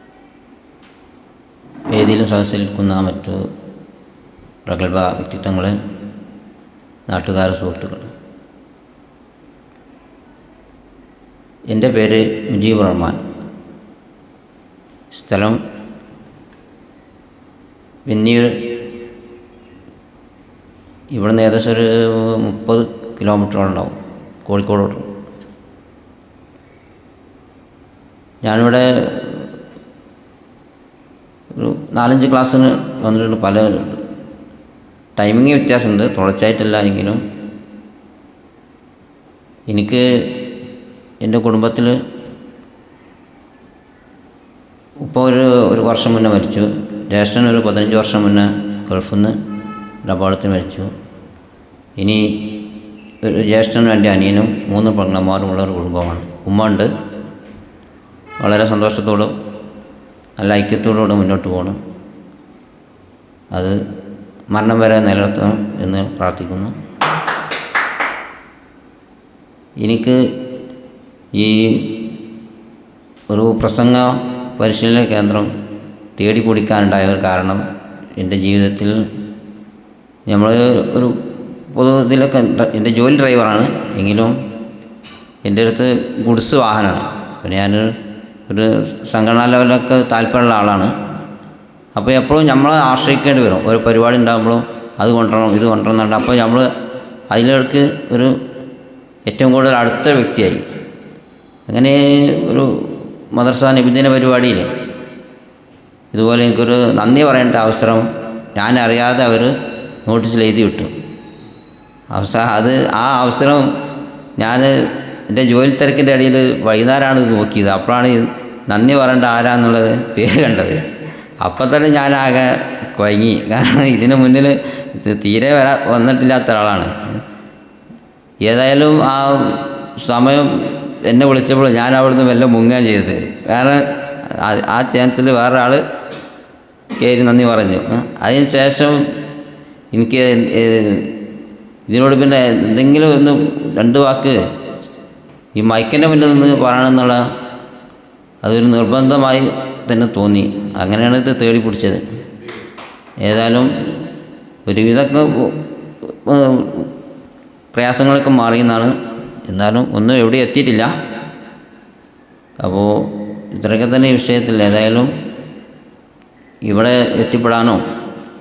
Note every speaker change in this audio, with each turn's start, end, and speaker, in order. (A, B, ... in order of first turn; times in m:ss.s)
0:01.9-0:03.4 A
0:04.6-0:05.7 A
0:07.1-0:08.1 A
0:11.7-0:13.2 A
0:15.1-0:15.6 A
0:18.0-0:18.8 A
0:21.1-0:25.1 A
0:28.4-0:29.5 A
0:31.5-0:34.0 A
0:35.2-0:37.2 A
0:39.7-0:40.5 A
0:41.2-0:42.0 A
0:45.0-0:49.4 A
0:50.0-0:50.9 A
0:52.0-0:52.6 A
0:53.2-0:56.9 A
0:58.4-0:59.3 A
1:00.4-1:01.8 A
1:03.5-1:03.8 A
1:04.5-1:06.7 A
1:09.8-1:10.3 A
1:11.3-1:12.2 A
1:13.3-1:15.5 A
1:16.2-1:17.6 A
1:18.2-1:19.0 A
1:20.3-1:24.4 A
1:25.4-1:28.0 A
1:28.5-1:30.9 A
1:31.9-1:36.7 A
1:37.3-1:38.4 A
1:39.3-1:40.6 A
1:41.7-1:44.7 A
1:46.1-1:50.9 A
1:52.1-1:53.7 A
1:54.4-2:00.8 A
2:01.4-2:07.0 A
2:08.4-2:15.8 A
2:17.0-2:19.0 A
2:19.9-2:21.2 A
2:21.9-2:24.4 A
2:25.5-2:27.2 A
2:28.4-2:32.0 A
2:33.2-2:33.7 A
2:34.6-2:36.9 A
2:37.7-2:41.0 A
2:42.6-2:45.1 A
2:46.6-2:47.8 A